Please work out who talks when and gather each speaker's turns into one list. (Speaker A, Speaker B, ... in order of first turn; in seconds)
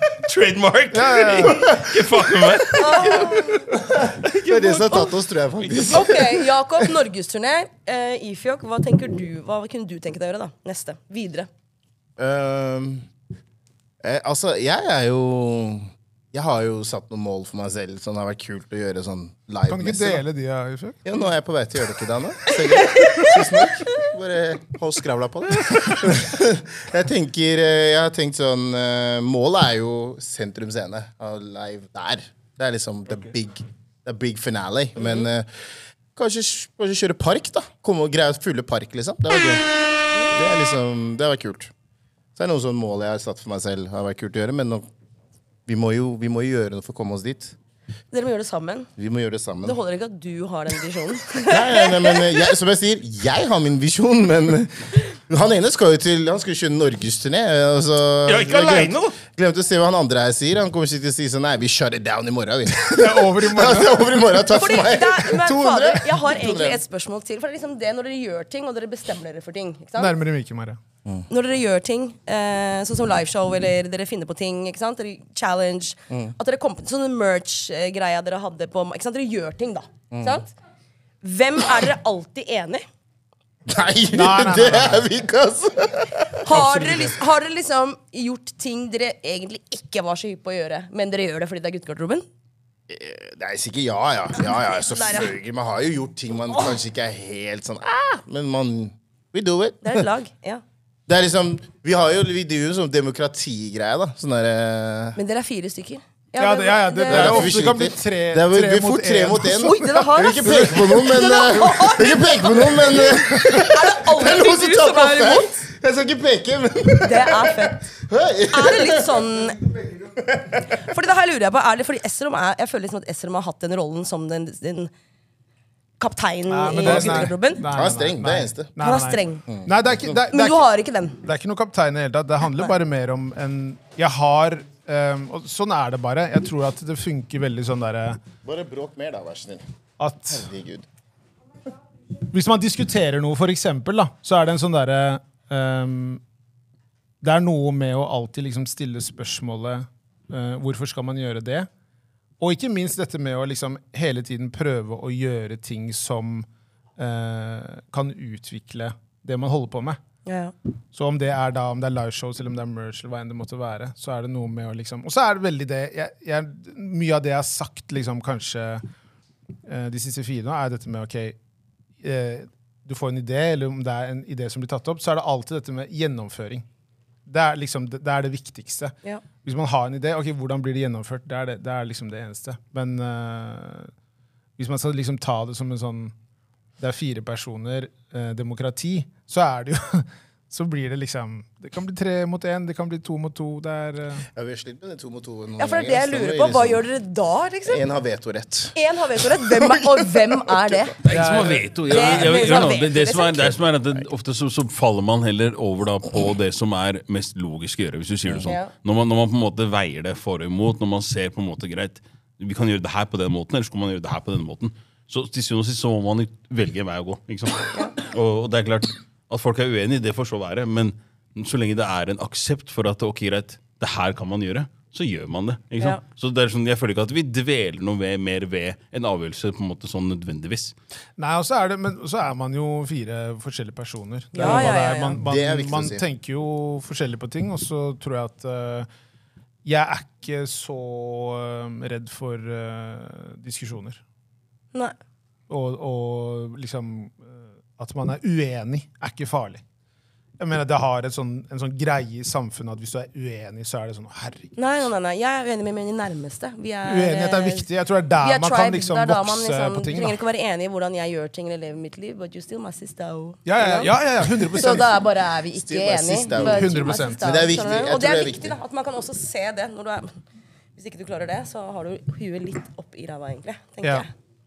Speaker A: 0.2-6.0, 58.2-59.2, 201.0-230.7
Speaker B: 0.9-1.6, 19.7-21.0, 63.0-64.1, 70.0-70.8, 84.1-85.0, 86.7-87.1, 106.4-109.7, 126.5-130.6, 131.2-138.2, 140.0-140.5, 142.3-146.2, 147.2-151.7, 152.4-160.0, 160.9-168.8, 169.7-171.4, 172.0-176.7, 177.3-183.9, 184.6-186.1, 186.8-194.3, 201.1-202.3, 231.2-238.9, 239.7-244.0, 245.5-249.6, 250.4-254.5, 256.9-260.2, 263.4-264.9, 266.4-267.5
Speaker C: 2.8-3.7, 5.9-11.5, 22.5-24.1, 35.0-35.3, 48.1-48.9, 49.6-52.5, 64.4-70.2, 71.3-80.5, 81.2-82.8, 86.5-92.3, 94.4-95.3, 99.8-100.6, 105.2-107.6, 109.5-115.6, 117.0-117.8, 118.5-119.6, 120.8-124.9, 126.0-127.6, 128.8-129.4, 130.3-131.2, 160.3-160.5, 195.6-197.8, 198.8-201.0, 201.8-203.5, 208.4-208.7, 234.3-235.2, 254.6-257.7, 258.2-270.2, 270.8-274.1
Speaker D: 4.4-6.5, 12.2-13.1, 14.0-20.2, 21.1-35.5, 36.1-39.6, 40.3-41.7, 42.4-44.9, 45.7-47.5, 49.0-49.8, 51.5-66.8, 80.1-80.4, 83.7-87.0, 92.9-100.1, 101.1-105.2, 107.1-119.3, 126.8-128.8, 129.5-130.1, 138.4-139.6, 140.3-140.9, 194.3-196.8, 197.7-200.9, 234.4-236.0, 265.5-268.6